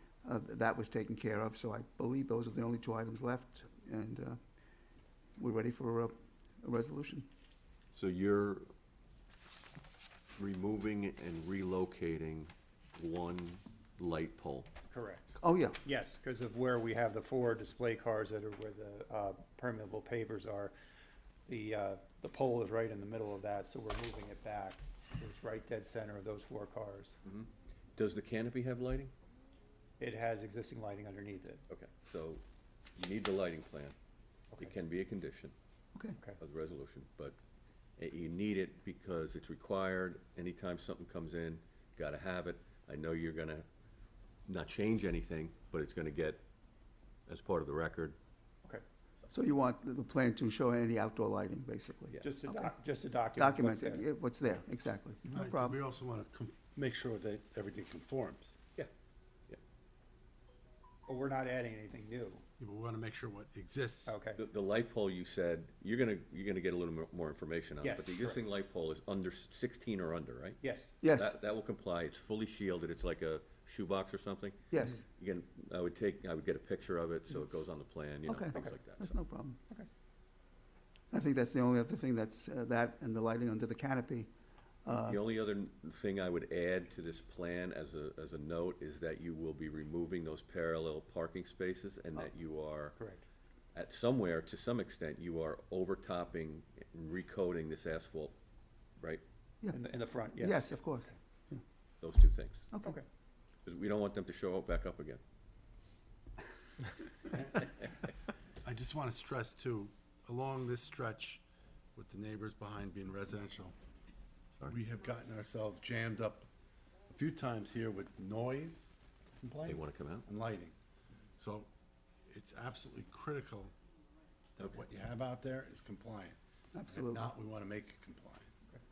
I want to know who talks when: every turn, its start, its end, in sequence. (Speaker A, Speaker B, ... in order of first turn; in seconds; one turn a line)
Speaker A: 0.2-4.4
Speaker A: 5.4-7.3
Speaker B: 8.0-8.7
Speaker B: 10.4-14.7
Speaker C: 14.9-15.3
Speaker A: 15.4-15.8
Speaker C: 15.8-20.8
Speaker C: 21.5-27.2
Speaker B: 27.2-29.1
Speaker C: 30.0-31.6
Speaker B: 31.7-32.4
Speaker B: 33.0-34.0
Speaker B: 34.6-35.5
Speaker B: 36.4-37.4
Speaker B: 38.0-43.7
Speaker B: 44.5-46.4
Speaker B: 47.3-48.2
Speaker A: 49.3-52.8
Speaker C: 52.2-54.1
Speaker A: 53.3-55.8
Speaker D: 55.3-58.6
Speaker C: 61.1-62.4
Speaker D: 62.6-64.1
Speaker C: 64.1-64.4
Speaker B: 64.3-74.6
Speaker C: 67.8-68.5
Speaker C: 70.6-71.0
Speaker A: 71.0-71.4
Speaker A: 74.7-75.0
Speaker B: 75.2-79.2
Speaker A: 78.3-79.6
Speaker A: 81.1-84.3
Speaker A: 84.8-85.2
Speaker B: 85.0-93.0
Speaker C: 93.0-93.2
Speaker B: 93.8-98.4
Speaker C: 99.7-101.2
Speaker A: 100.4-101.6
Speaker B: 102.0-102.6
Speaker A: 102.7-103.0
Speaker B: 103.7-105.2
Speaker D: 107.3-107.7
Speaker D: 108.7-111.4
Speaker D: 112.0-113.8
Speaker D: 114.7-116.5
Speaker D: 117.1-120.8
Speaker B: 119.7-120.3
Speaker D: 121.4-121.7
Speaker D: 122.3-123.7
Speaker D: 124.6-126.4
Speaker A: 126.7-127.3
Speaker D: 126.9-128.5